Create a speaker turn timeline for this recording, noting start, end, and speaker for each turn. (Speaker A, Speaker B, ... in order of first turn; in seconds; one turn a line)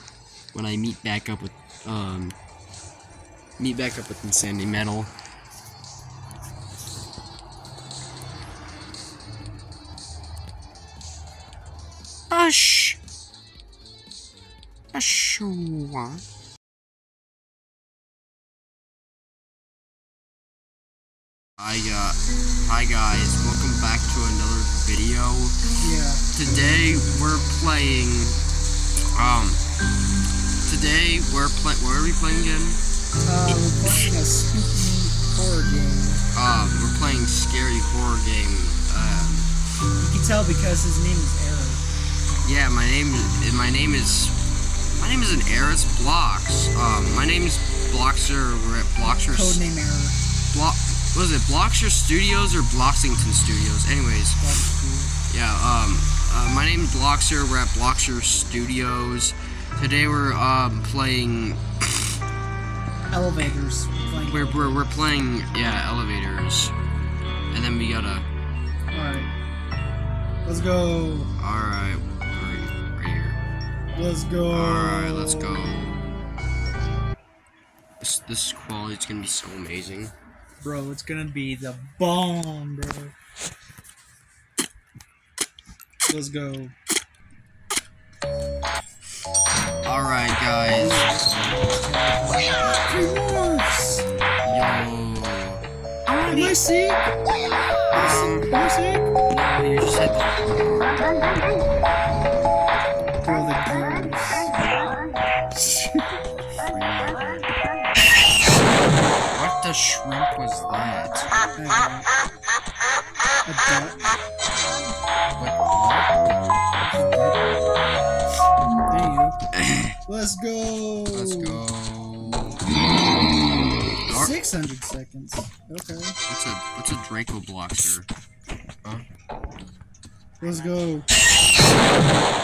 Speaker A: 0.5-2.4
Speaker A: 3.6-5.1
Speaker A: 12.3-13.0
Speaker A: 14.9-16.2
Speaker A: 21.6-25.6
Speaker B: 25.8-26.2
Speaker A: 26.3-28.4
Speaker A: 29.1-29.6
Speaker A: 30.6-32.8
Speaker B: 33.2-36.2
Speaker A: 36.3-39.5
Speaker B: 40.0-41.8
Speaker A: 42.4-44.3
Speaker A: 45.0-49.6
Speaker B: 49.0-50.2
Speaker A: 50.5-54.4
Speaker B: 54.4-55.1
Speaker A: 55.3-62.2
Speaker B: 63.1-65.2
Speaker A: 64.2-66.7
Speaker A: 67.5-68.3
Speaker B: 68.9-69.3
Speaker B: 70.5-71.3
Speaker A: 71.4-73.4
Speaker B: 73.9-75.8
Speaker A: 74.5-76.0
Speaker A: 78.0-80.1
Speaker B: 80.6-83.1
Speaker B: 86.1-86.8
Speaker A: 89.8-91.1
Speaker B: 90.7-94.0
Speaker A: 94.4-96.6
Speaker B: 96.2-97.0
Speaker A: 97.9-98.5
Speaker B: 97.9-99.1
Speaker A: 99.3-101.6
Speaker B: 103.2-104.6
Speaker B: 105.5-106.2
Speaker A: 106.5-107.5
Speaker A: 109.3-111.3
Speaker B: 111.6-112.1
Speaker B: 113.5-114.0
Speaker A: 115.4-116.6
Speaker B: 116.8-117.4
Speaker B: 118.9-119.4
Speaker A: 119.5-120.0
Speaker B: 120.0-121.6
Speaker A: 121.1-122.7
Speaker A: 124.1-124.3
Speaker B: 124.1-126.2
Speaker A: 126.3-128.1
Speaker B: 130.4-131.1